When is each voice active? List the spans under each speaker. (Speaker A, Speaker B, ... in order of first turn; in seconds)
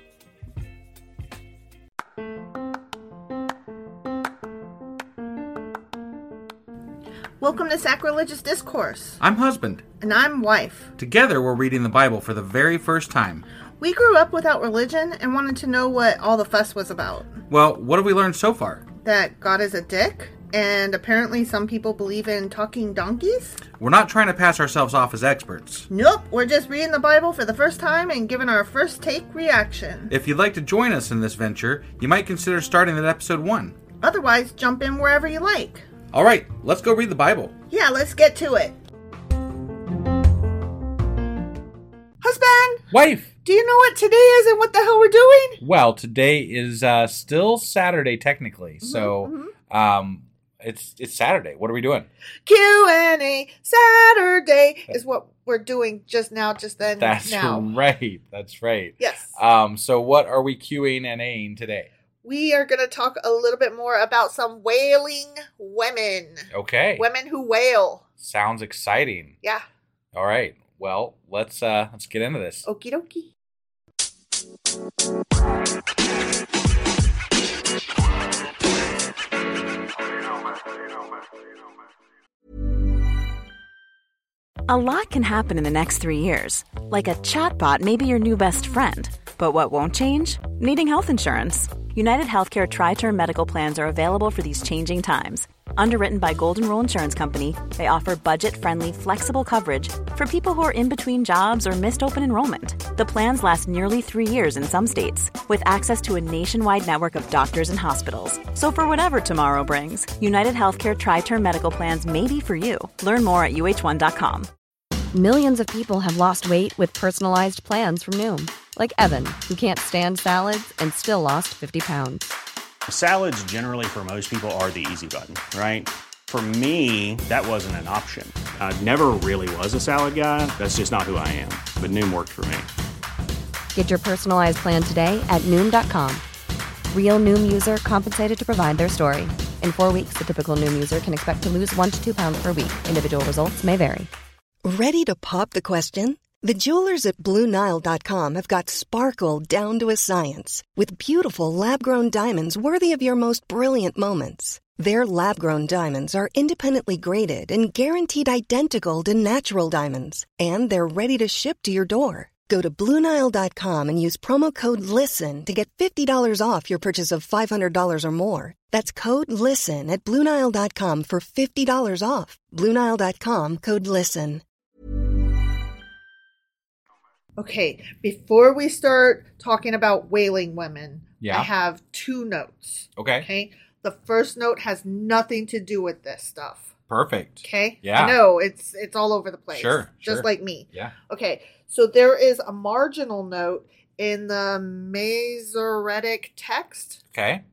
Speaker A: 7.4-9.2, 10.0-10.9, 13.8-17.4, 19.0-23.6, 25.9-30.1, 34.0-35.9, 37.7-38.8, 42.2-42.8, 43.4-45.6, 48.8-49.5, 52.5-57.7, 59.0-59.4, 62.2-68.0, 72.6-73.3, 177.4-186.7, 187.4-197.0
Speaker B: 9.2-9.8, 11.0-13.4, 17.5-18.8, 23.8-25.9, 30.1-33.8, 36.1-37.5, 42.9-43.3, 45.6-52.1, 57.0-61.9, 66.5-67.0, 68.2-69.3, 70.1-72.7, 181.2-181.5, 183.0-183.3, 186.9-188.2, 189.5-190.9, 197.1-197.4
Speaker C: 84.7-114.5
Speaker D: 115.1-122.3, 133.7-136.2, 136.9-144.1
Speaker E: 122.9-132.7
Speaker F: 144.6-174.4